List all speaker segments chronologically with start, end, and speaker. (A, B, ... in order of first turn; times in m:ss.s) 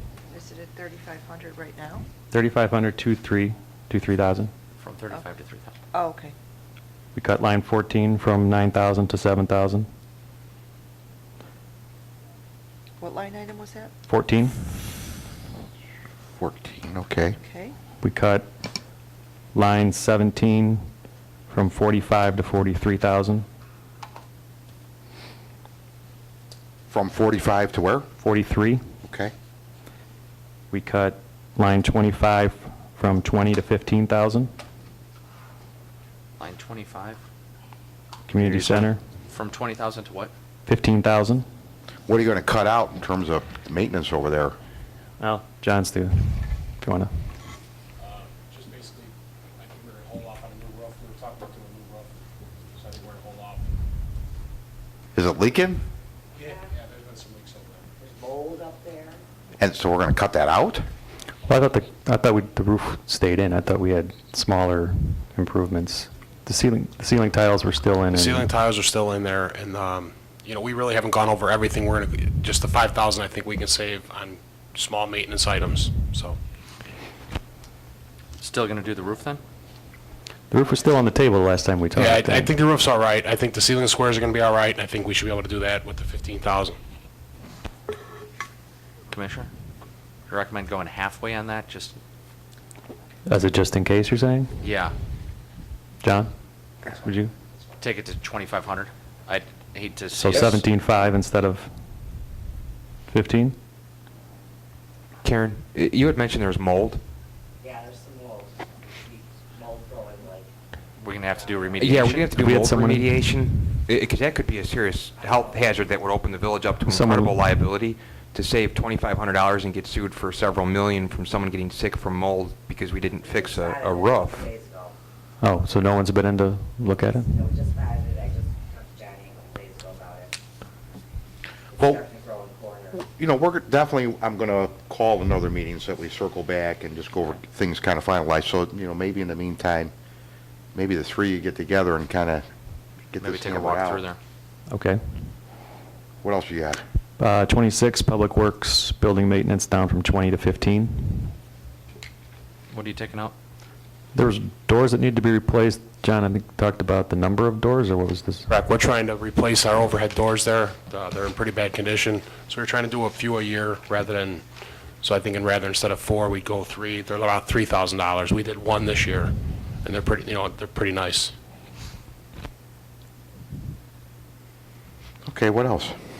0:00.3-0:02.0 A
0:02.3-0:04.5 B
0:04.8-0:05.7 C
0:05.9-0:06.3 A
0:07.1-0:09.9 B
0:13.0-0:13.9 A
0:14.1-0:14.6 B
0:16.4-0:17.4 D
0:17.4-0:17.7 A
0:18.0-0:18.4 B
0:19.5-0:20.8 B
0:21.5-0:23.4 B
0:26.9-0:28.1 D
0:28.2-0:28.8 B
0:29.0-0:29.3 D
0:30.7-0:34.5 B
0:36.4-0:37.2 C
0:38.3-0:39.0 B
0:38.3-0:40.3 C
0:40.7-0:41.4 B
0:42.1-0:44.6 D
0:45.2-0:47.1 B
0:48.0-0:52.1 E
0:52.7-0:53.8 E
0:55.1-0:55.8 D
0:56.3-0:57.9 E
0:58.0-0:59.2 F
0:59.6-1:00.8 D
1:01.5-1:08.5 B
1:08.1-1:16.4 E
1:18.4-1:19.4 C
1:20.5-1:22.5 B
1:21.9-1:26.8 E
1:29.1-1:29.5 C
1:30.3-1:32.0 C
1:33.2-1:34.6 B
1:34.6-1:35.0 C
1:36.0-1:36.3 B
1:36.9-1:37.3 B
1:37.8-1:40.6 C
1:40.1-1:41.7 B
1:43.1-1:43.6 B
1:45.2-1:47.0 G
1:47.6-1:50.5 F
1:51.0-1:52.4 C
1:51.1-1:52.2 F
1:51.8-2:04.5 G
1:52.3-1:53.4 B
1:55.2-1:55.8 F
1:56.9-1:57.6 B
2:03.2-2:04.9 F
2:05.4-2:07.3 B
2:07.2-2:10.3 F
2:11.7-2:13.0 F
2:11.8-2:12.0 D
2:13.0-2:19.9 D
2:20.7-2:22.4 D
2:23.1-2:24.0 D
2:23.2-2:24.2 C
2:24.7-2:25.3 B
2:26.2-2:26.8 D
2:27.2-2:31.3 B
2:32.7-2:33.3 C
2:34.1-2:38.5 B
2:38.5-2:44.4 E
2:45.0-2:51.3 E
2:55.2-2:56.0 D